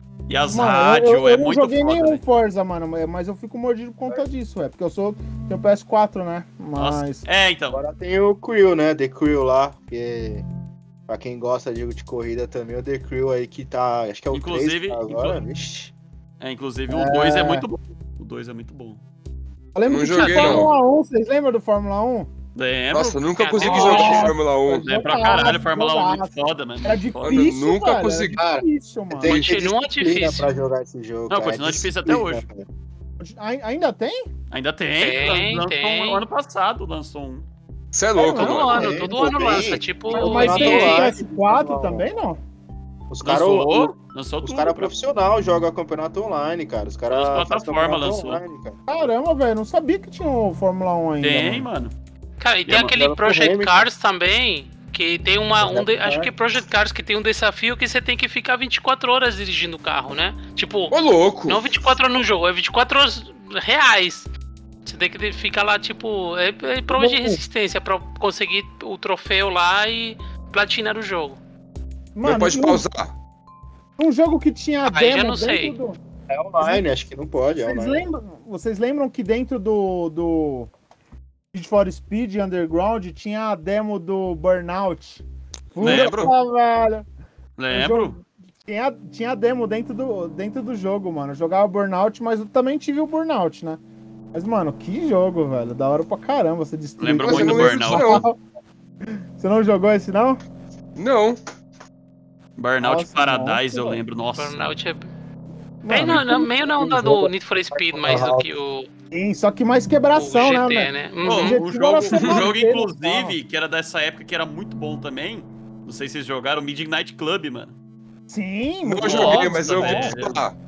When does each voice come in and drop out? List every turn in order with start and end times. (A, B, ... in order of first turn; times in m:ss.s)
0:00.3-0:02.2 A
0:00.5-0:07.2 B
0:06.8-0:07.8 A
0:07.7-0:10.5 C
0:11.1-0:15.9 C
0:14.3-0:15.4 A
0:16.4-0:19.0 A
0:16.9-0:17.6 B
0:19.8-0:22.3 B
0:19.9-0:20.7 D
0:22.6-0:27.4 A
0:22.9-0:24.9 D
0:23.3-0:24.4 E
0:23.6-0:29.4 B
0:27.2-0:28.4 D
0:28.4-0:32.7 C
0:29.3-0:30.5 E
0:31.3-0:32.4 A
0:33.2-0:34.3 B
0:34.5-0:37.5 A
0:35.0-0:36.2 E
0:37.9-0:38.9 D
0:38.2-0:39.1 B
0:38.3-0:41.1 E
0:38.7-0:42.1 C
0:40.1-0:42.4 B
0:43.1-0:48.8 C
0:43.2-0:44.9 A
0:47.1-0:48.4 A
0:48.9-0:51.7 B
0:51.2-0:51.9 A
0:52.4-1:00.9 E
0:52.7-0:53.0 A
0:52.9-0:53.9 C
0:55.6-0:56.3 C
1:00.9-1:01.7 D
1:01.5-1:04.3 E
1:04.8-1:11.4 E
1:06.9-1:07.4 B
1:12.2-1:12.9 B
1:12.2-1:13.1 D
1:14.0-1:16.0 B
1:14.9-1:15.8 E
1:16.3-1:18.0 C
1:16.6-1:16.9 B
1:17.6-1:20.7 B
1:21.5-1:27.0 B
1:25.8-1:26.3 A
1:25.8-1:26.3 D
1:27.6-1:28.2 A
1:27.7-1:33.8 B
1:34.3-1:38.4 B
1:37.0-1:38.2 A
1:37.2-1:38.3 D
1:39.4-1:40.4 B
1:41.0-1:41.4 D
1:42.6-1:44.6 A
1:42.8-1:44.0 B
1:44.4-1:45.1 E
1:45.8-1:47.2 B
1:45.9-1:48.9 E
1:46.8-1:48.5 C
1:49.1-1:53.4 B
1:50.1-1:51.6 E
1:51.2-1:57.7 A
1:52.1-1:52.5 D
1:58.3-2:00.2 B
1:58.8-2:00.6 D
1:59.0-2:00.4 A